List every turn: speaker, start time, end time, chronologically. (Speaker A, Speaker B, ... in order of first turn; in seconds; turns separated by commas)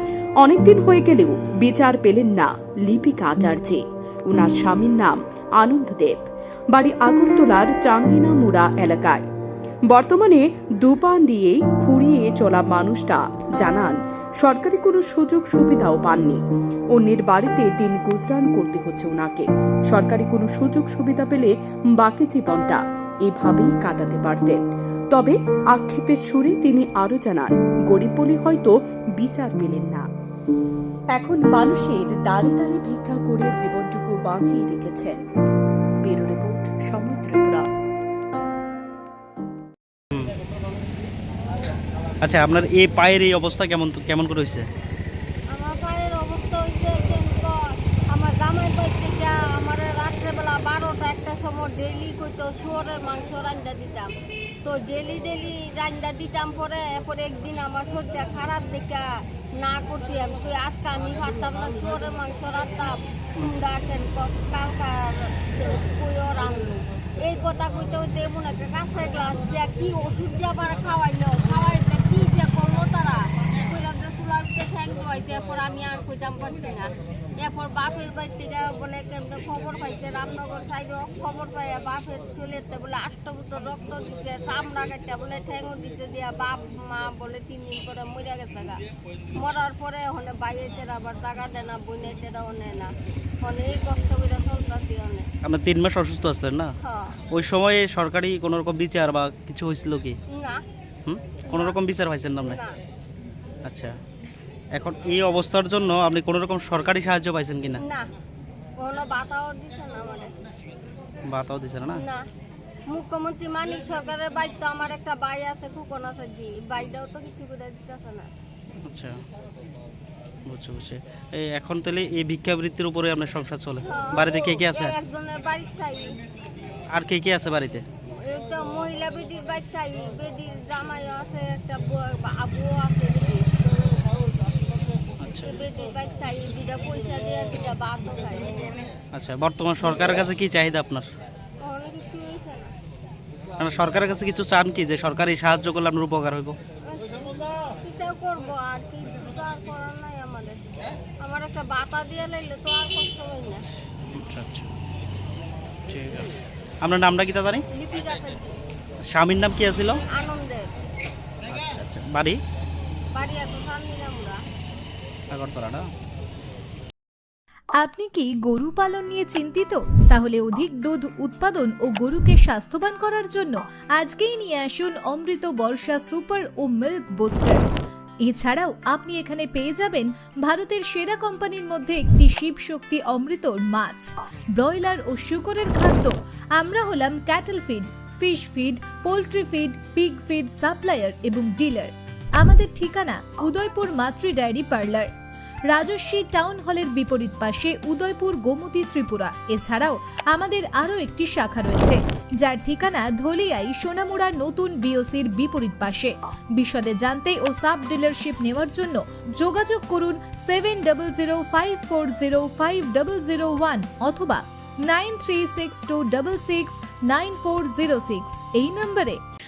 Speaker A: 0.4-9.3, Speaker A: 9.9-30.1, Speaker A: 31.1-35.2, Speaker A: 36.0-37.7, Speaker B: 42.2-44.6, Speaker C: 45.5-54.1, Speaker C: 54.6-95.3, Speaker B: 95.4-96.7, Speaker C: 96.8-97.2, Speaker B: 97.3-100.2, Speaker C: 100.3-100.6, Speaker B: 101.0-102.6, Speaker C: 101.5-101.8, Speaker C: 102.4-102.8, Speaker B: 103.7-103.9, Speaker B: 104.7-107.8, Speaker C: 107.8-108.1, Speaker C: 108.8-110.3, Speaker B: 111.2-112.0, Speaker C: 112.0-112.2, Speaker C: 112.9-118.3, Speaker B: 118.8-119.2, Speaker B: 120.5-124.9, Speaker C: 123.8-126.1, Speaker B: 126.9-127.8, Speaker C: 128.2-133.5, Speaker B: 135.2-135.6, Speaker C: 135.3-138.8, Speaker B: 139.1-141.1, Speaker C: 141.6-142.7, Speaker B: 143.6-146.6, Speaker C: 146.9-150.6, Speaker C: 151.2-153.6, Speaker B: 154.1-154.7, Speaker B: 155.9-157.6, Speaker C: 157.7-158.6, Speaker B: 159.0-160.0, Speaker C: 160.1-160.7, Speaker B: 161.5-162.4, Speaker C: 163.1-164.4, Speaker B: 165.3-165.8, Speaker D: 167.8-177.6, Speaker D: 178.2-195.1, Speaker D: 195.7-219.2